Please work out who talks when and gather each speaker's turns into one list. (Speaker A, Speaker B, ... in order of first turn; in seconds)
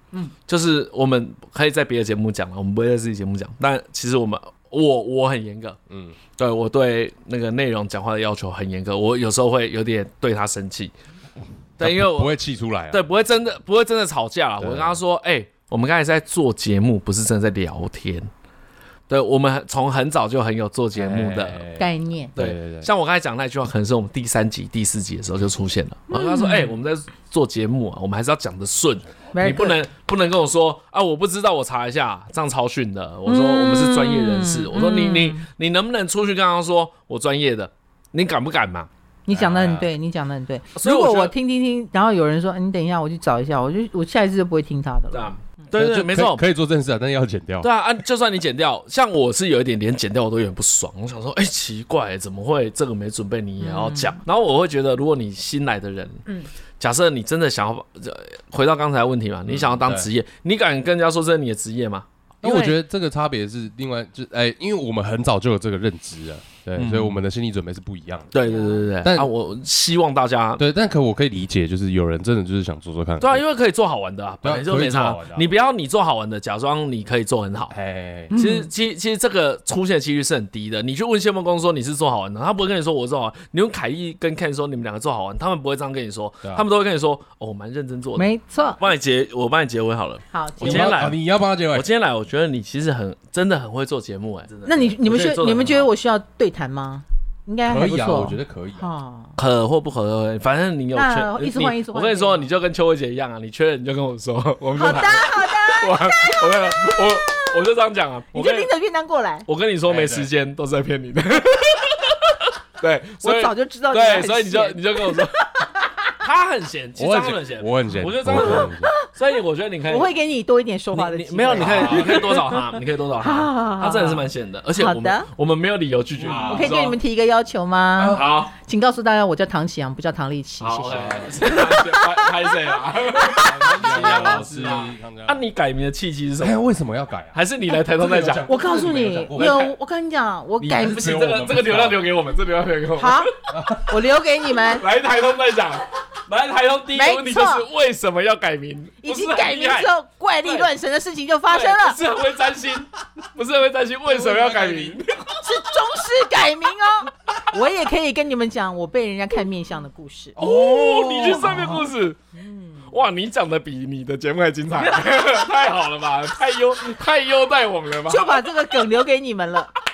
Speaker A: 0.5-5.8, 6.4-10.9, 11.8-12.4, 12.9-18.3, 19.1-21.6, 22.4-38.9, 40.8-41.3, 45.1-46.4, 47.6-56.3, 56.8-62.1, 66.8-67.2, 68.3-70.6, 73.2-77.7, 78.3-91.2, 91.7-95.9, 99.4-108.7, 109.5-115.4, 116.2-120.1, 120.9-127.0, 128.1-128.5, 130.6-136.6, 137.3-138.5, 139.3-139.7, 140.6-143.3, 144.6-149.9, 150.4-150.7, 151.5-155.4, 160.4-162.2, 162.9-168.4
Speaker B: 5.9-6.2, 11.8-13.1, 14.6-15.0, 20.9-22.9, 39.3-39.9, 45.7-47.7, 59.5-60.1, 62.4-68.3, 69.0-69.3, 70.6-73.4, 74.4-75.5, 77.7-78.3, 90.6-91.9, 97.7-98.9, 109.9-110.3, 117.0-118.9, 121.5-122.2, 126.2-126.8, 128.0-128.4, 130.9-131.7, 133.2-135.4, 136.4-139.6, 140.8-142.1, 143.5-144.0, 154.1-155.0, 160.4-161.8
Speaker C: 21.8-22.3, 26.1-26.7, 29.3-29.8, 33.3-35.5, 39.3-45.3, 53.6-54.2, 62.5-62.7, 68.4-68.8, 78.3-78.7, 88.2-88.8, 90.3-91.0, 94.7-99.4, 100.9-102.5, 104.8-107.5, 108.3-109.5, 113.2-116.1, 117.9-119.1, 119.9-122.6, 123.2-125.3, 126.4-134.5, 138.4-141.1, 143.0-143.3, 143.9-144.8, 146.9-147.7, 149.0-152.0, 155.4-160.4, 161.2-162.9, 164.8-165.4, 168.1-169.7